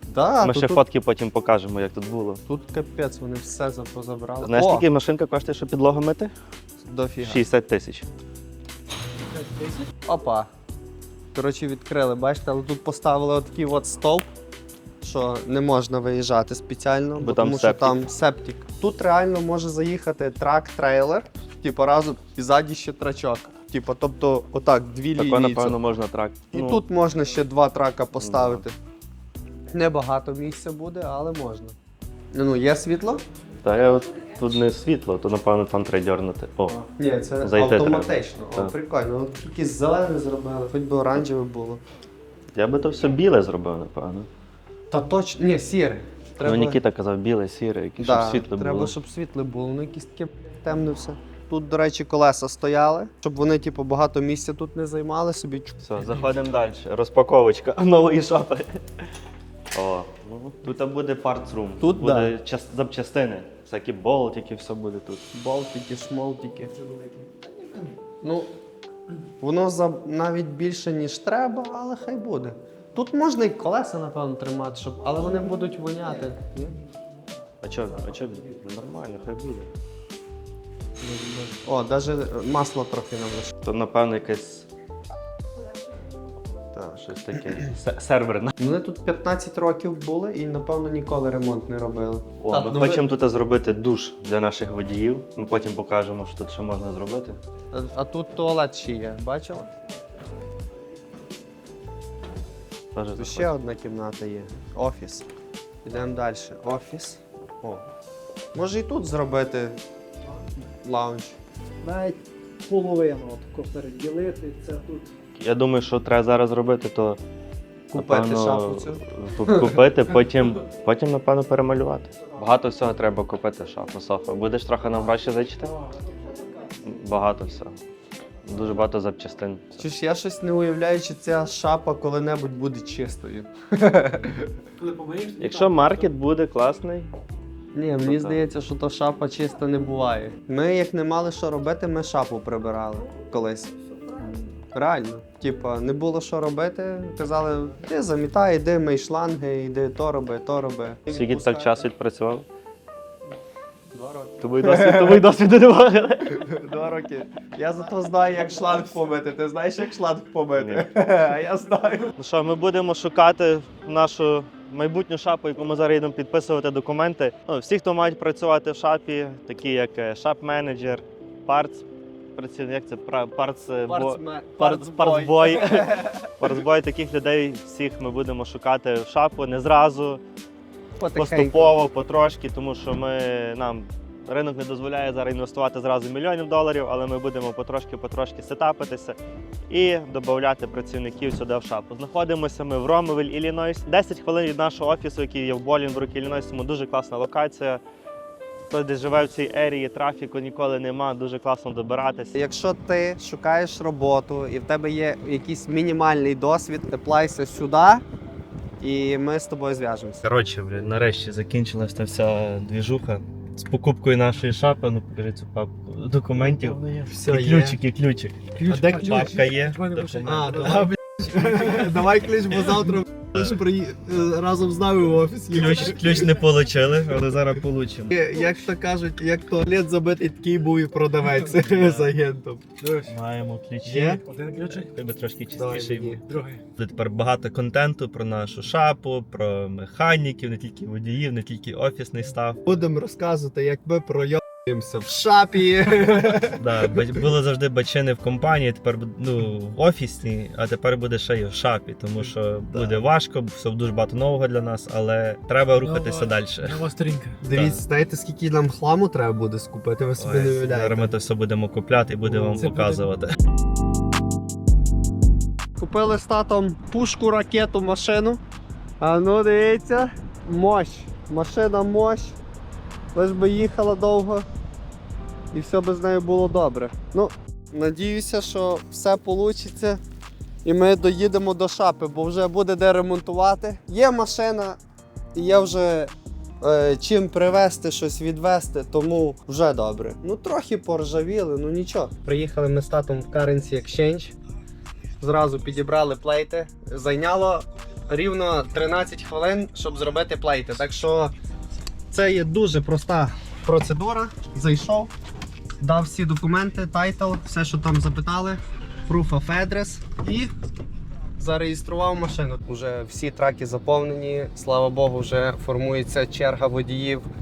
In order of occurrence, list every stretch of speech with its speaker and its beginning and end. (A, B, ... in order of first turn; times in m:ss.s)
0:00.1-0:00.8 A
0:00.4-0:02.4 B
0:02.5-0:04.9 A
0:04.4-0:06.3 B
0:06.8-0:07.4 A
0:07.2-0:08.0 B
0:10.0-0:10.5 A
0:11.3-0:14.3 A
0:15.0-0:25.8 A
0:17.2-0:18.1 B
0:25.2-0:26.8 B
0:26.5-0:28.8 A
0:28.2-0:28.6 B
0:29.7-0:31.7 A
0:32.3-0:33.2 A
0:33.6-0:36.8 B
0:36.7-0:41.8 A
0:37.4-0:38.7 B
0:42.5-0:44.3 B
0:44.9-0:46.8 A
0:46.4-0:49.0 B
0:48.0-0:55.8 A
0:55.8-0:58.8 B
0:59.7-1:05.3 B
1:01.8-1:02.3 A
1:05.3-1:06.7 A
1:08.2-1:08.5 A
1:09.4-1:16.8 A
1:17.6-1:19.7 B
1:21.0-1:23.5 A
1:23.6-1:24.7 B
1:26.7-1:27.7 A
1:27.0-1:28.5 B
1:28.6-1:33.0 A
1:32.4-1:37.4 B
1:37.7-1:39.7 A
1:42.9-1:43.6 B
1:43.2-1:45.3 A
1:45.8-1:47.9 A
1:48.5-1:49.8 A
1:50.8-1:51.4 A
1:51.8-1:55.1 C
1:55.4-1:57.2 B
1:57.9-1:59.8 A
1:57.9-2:05.8 B
2:06.7-2:07.8 B
2:08.4-2:09.8 B
2:09.8-2:14.5 A
2:14.8-2:15.5 C
2:15.4-2:17.1 B
2:17.7-2:23.8 A
2:18.0-2:18.4 B
2:24.7-2:31.9 A
2:31.1-2:32.4 B
2:33.9-2:35.2 A
2:34.4-2:36.5 B
2:36.3-2:42.1 A
2:40.6-2:40.9 B
2:42.2-3:00.2 B
2:53.9-2:56.4 A
3:01.0-3:01.8 A
3:01.1-3:09.2 B
3:09.7-3:17.8 B
3:18.7-3:22.4 B
3:22.4-3:28.0 A
3:28.8-3:30.2 A
3:30.2-3:40.9 B
3:37.1-3:37.8 A
3:38.6-3:39.2 A
3:38.8-3:40.1 C
3:40.2-3:46.3 A
3:45.5-3:48.2 B
3:48.1-3:52.6 A
3:51.6-3:52.1 B
3:52.8-3:53.1 C
3:53.0-4:02.7 B
3:53.8-3:54.2 A
3:54.2-3:54.8 C
3:55.5-3:56.2 A
3:56.3-3:56.6 C
4:02.6-4:07.0 A
4:06.6-4:16.9 B
4:16.8-4:17.4 C
4:17.4-4:21.1 A
4:17.5-4:17.8 B
4:20.2-4:23.3 B
4:22.3-4:23.0 A
4:25.8-4:28.4 A
4:29.0-4:32.4 A
4:33.1-4:34.4 A
4:35.5-4:40.0 A
4:40.6-4:44.8 A
4:45.3-4:54.3 A
4:55.2-5:01.3 A
5:02.1-5:05.1 A
5:05.8-5:10.5 A
5:11.4-5:17.2 A